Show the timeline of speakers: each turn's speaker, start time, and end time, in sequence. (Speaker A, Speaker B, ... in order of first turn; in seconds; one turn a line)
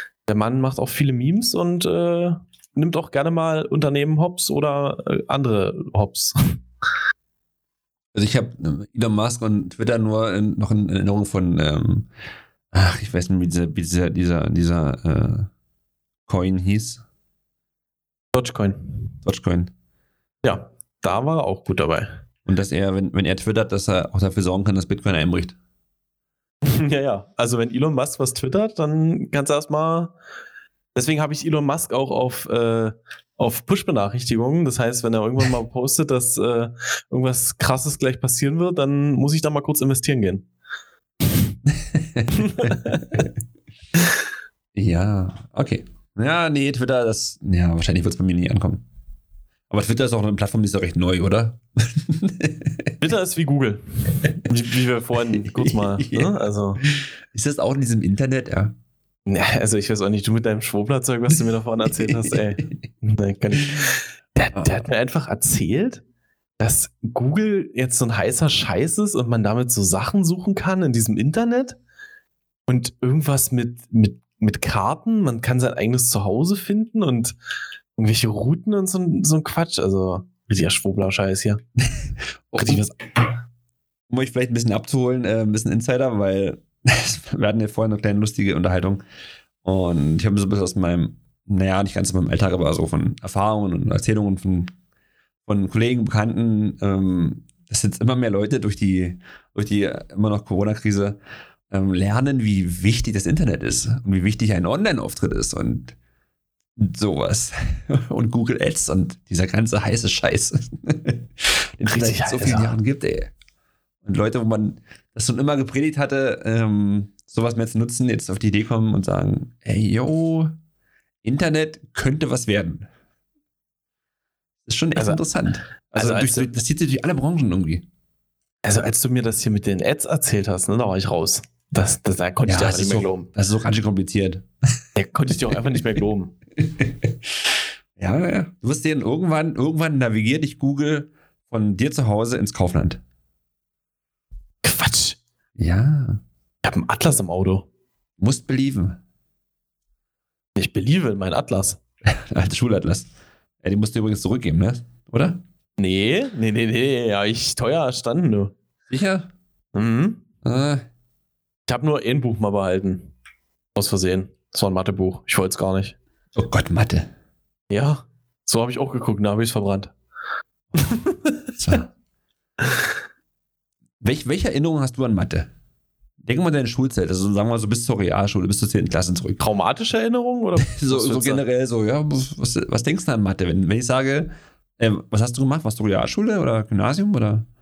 Speaker A: 0.3-6.6
Speaker B: 8.1-12.1
Speaker B: 12.7-15.5
Speaker B: 16.3-17.0
Speaker A: 18.3-19.0
Speaker B: 19.2-19.7
Speaker A: 20.4-22.1
Speaker B: 22.5-25.6
Speaker A: 26.6-30.1
Speaker A: 30.9-40.5
Speaker B: 41.7-43.2
Speaker A: 42.4-43.2
Speaker B: 44.8-48.8
Speaker B: 49.7-52.9
Speaker A: 53.0-53.8
Speaker A: 54.5-56.8
Speaker B: 55.4-58.8
Speaker A: 59.3-66.0
Speaker B: 62.1-62.8
Speaker A: 66.6-71.8
Speaker A: 72.7-77.4
Speaker A: 78.0-81.6
Speaker B: 81.8-82.8
Speaker A: 82.6-83.0
Speaker B: 84.1-89.0
Speaker B: 89.6-94.7
Speaker B: 95.5-101.2
Speaker B: 101.7-105.9
Speaker B: 106.8-113.3
Speaker A: 111.9-112.7
Speaker B: 114.0-120.5
Speaker B: 121.2-122.9
Speaker B: 124.7-127.8
Speaker A: 126.0-126.5
Speaker A: 128.6-133.3
Speaker B: 132.5-134.5
Speaker A: 135.0-136.3
Speaker B: 136.6-137.2
Speaker B: 138.0-143.0
Speaker A: 144.6-145.2
Speaker B: 145.6-146.2
Speaker A: 146.6-147.7
Speaker B: 148.2-149.0
Speaker A: 150.6-151.8
Speaker B: 152.1-153.1
Speaker B: 153.6-155.4
Speaker A: 155.8-158.5
Speaker B: 158.9-159.3
Speaker A: 159.7-160.2
Speaker B: 160.4-160.8
Speaker A: 161.7-163.1
Speaker A: 163.8-166.0
Speaker B: 166.3-167.1
Speaker A: 167.7-169.9
Speaker A: 170.7-171.3
Speaker B: 171.6-171.9
Speaker B: 174.0-175.5
Speaker B: 176.2-179.4
Speaker A: 179.4-181.4
Speaker B: 180.6-187.5